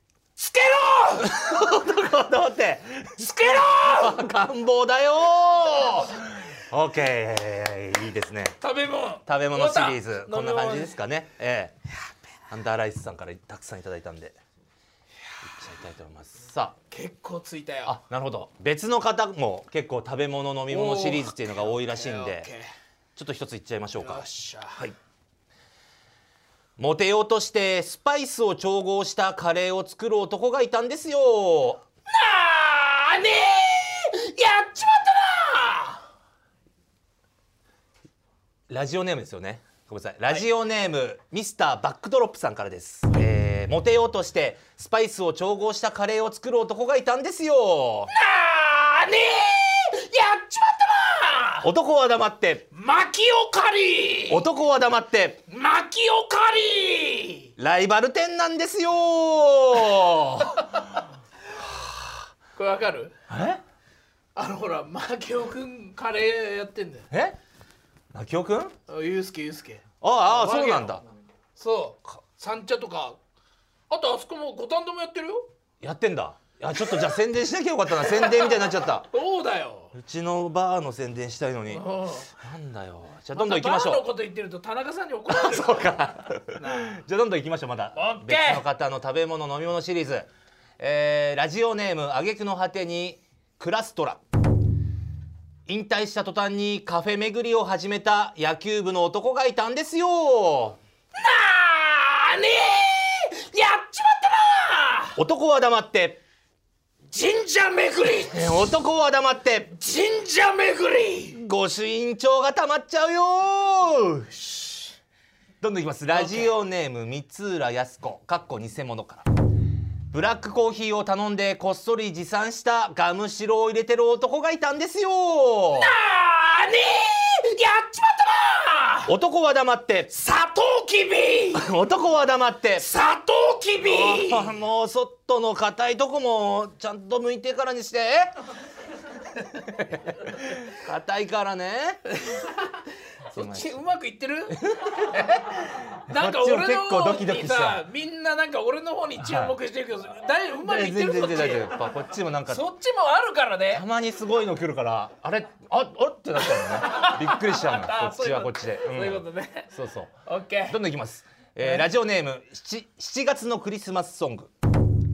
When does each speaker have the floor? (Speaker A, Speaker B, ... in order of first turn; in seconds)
Speaker A: 0.4-1.4, 3.2-4.2, 8.6-10.9, 16.9-18.0, 20.7-22.7, 24.0-24.8, 32.1-36.0, 48.1-51.7, 52.7-54.5, 55.5-57.5, 62.6-63.1, 64.4-67.1, 68.9-71.0, 71.6-73.2, 73.9-75.5, 78.0-79.9, 81.7-82.3, 83.4-86.0, 86.5-87.0, 87.9-88.7, 101.2-105.2, 107.1-108.5, 109.8-111.4, 114.4-114.9, 116.2-116.5, 125.8-129.1, 130.1-131.7, 132.8-134.5, 142.1-142.6, 143.3-144.6, 146.1-151.8, 152.5-153.8, 156.4-159.7, 160.2-160.8
Speaker B: 1.2-8.6, 9.3-11.8, 12.5-14.4, 15.5-16.8, 17.9-22.5, 23.2-24.9, 26.8-31.8, 38.7-48.1, 51.6-52.6, 54.3-55.4, 57.6-60.8, 63.3-63.6, 67.1-67.4, 68.1-68.7, 70.0-71.0, 75.8-79.1, 79.9-84.0, 85.3-94.2, 95.7-100.8, 105.2-106.2, 108.3-109.7, 111.4-114.3, 115.6-119.3, 120.1-125.9, 129.1-130.1, 131.6-132.8, 133.8-138.3, 139.7-142.1, 143.3-143.8, 144.6-147.9, 149.2-149.6, 150.6-152.7, 153.7-160.2, 160.7-164.5